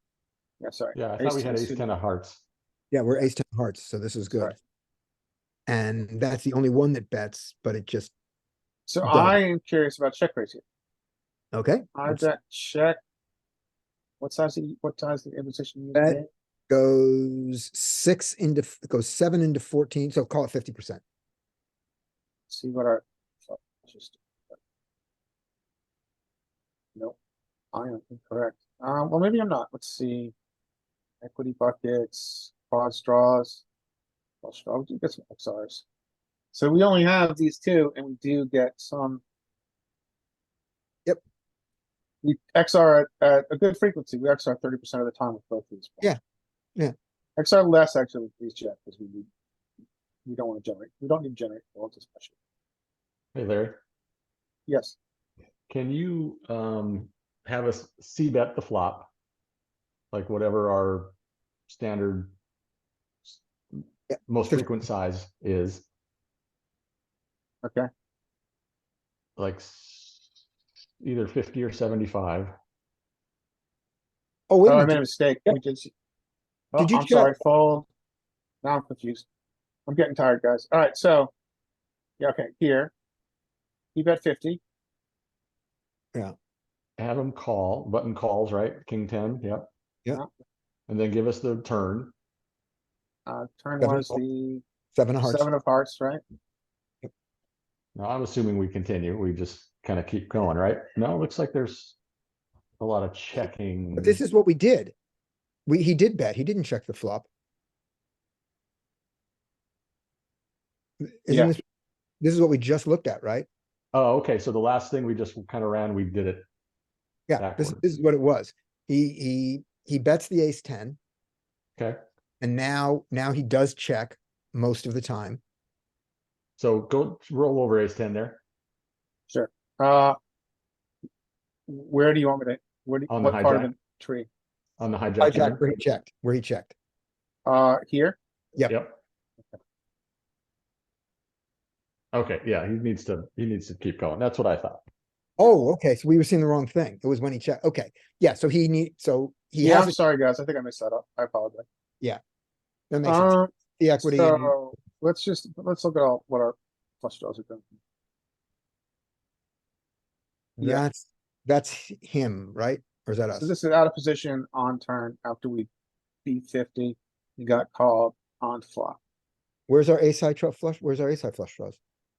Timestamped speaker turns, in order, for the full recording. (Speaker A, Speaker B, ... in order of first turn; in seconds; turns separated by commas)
Speaker A: 0.6-1.9, Speaker B: 0.9-2.4, Speaker C: 2.9-4.5, Speaker A: 4.3-4.5, Speaker C: 5.7-8.1, Speaker A: 8.9-10.6, Speaker C: 9.0-9.4, Speaker C: 11.5-12.2, Speaker A: 11.9-13.0, Speaker A: 14.2-16.3, Speaker C: 15.9-21.0, Speaker A: 22.5-24.6, Speaker A: 27.7-30.3, Speaker A: 31.2-33.6, Speaker A: 34.4-35.8, Speaker A: 36.5-39.2, Speaker A: 42.2-46.1, Speaker A: 47.4-49.3, Speaker A: 50.2-52.3, Speaker B: 53.3-53.8, Speaker A: 54.7-55.0, Speaker B: 55.7-59.1, Speaker B: 60.1-61.1, Speaker B: 61.7-62.3, Speaker B: 63.2-65.8, Speaker C: 64.1-64.7, Speaker A: 67.6-67.9, Speaker B: 69.4-70.2, Speaker B: 71.0-72.5, Speaker C: 74.5-75.6, Speaker A: 74.7-75.9, Speaker A: 76.7-77.9, Speaker C: 76.8-77.4, Speaker A: 78.6-79.2, Speaker A: 79.9-81.3, Speaker A: 82.2-82.9, Speaker A: 83.9-84.6, Speaker B: 87.0-89.7, Speaker B: 90.9-92.1, Speaker A: 93.2-94.6, Speaker C: 93.8-94.2, Speaker C: 94.9-95.5, Speaker A: 95.2-96.2, Speaker B: 97.9-102.0, Speaker B: 102.8-104.2, Speaker C: 104.0-104.9, Speaker C: 105.7-107.3, Speaker C: 111.0-111.6, Speaker C: 112.2-113.5, Speaker B: 113.9-116.4, Speaker C: 117.3-121.0, Speaker B: 117.4-117.8, Speaker C: 122.4-125.4, Speaker B: 126.6-128.4, Speaker A: 129.3-130.2, Speaker A: 131.7-134.3, Speaker B: 133.1-133.7, Speaker B: 134.8-135.8, Speaker C: 135.2-136.7, Speaker A: 137.4-138.2, Speaker B: 138.7-139.0, Speaker B: 142.1-144.8, Speaker C: 145.4-149.9, Speaker A: 149.6-151.6, Speaker C: 152.9-154.5, Speaker A: 153.0-157.7, Speaker C: 160.6-163.5, Speaker A: 163.4-165.7, Speaker A: 166.2-169.0, Speaker C: 169.7-171.8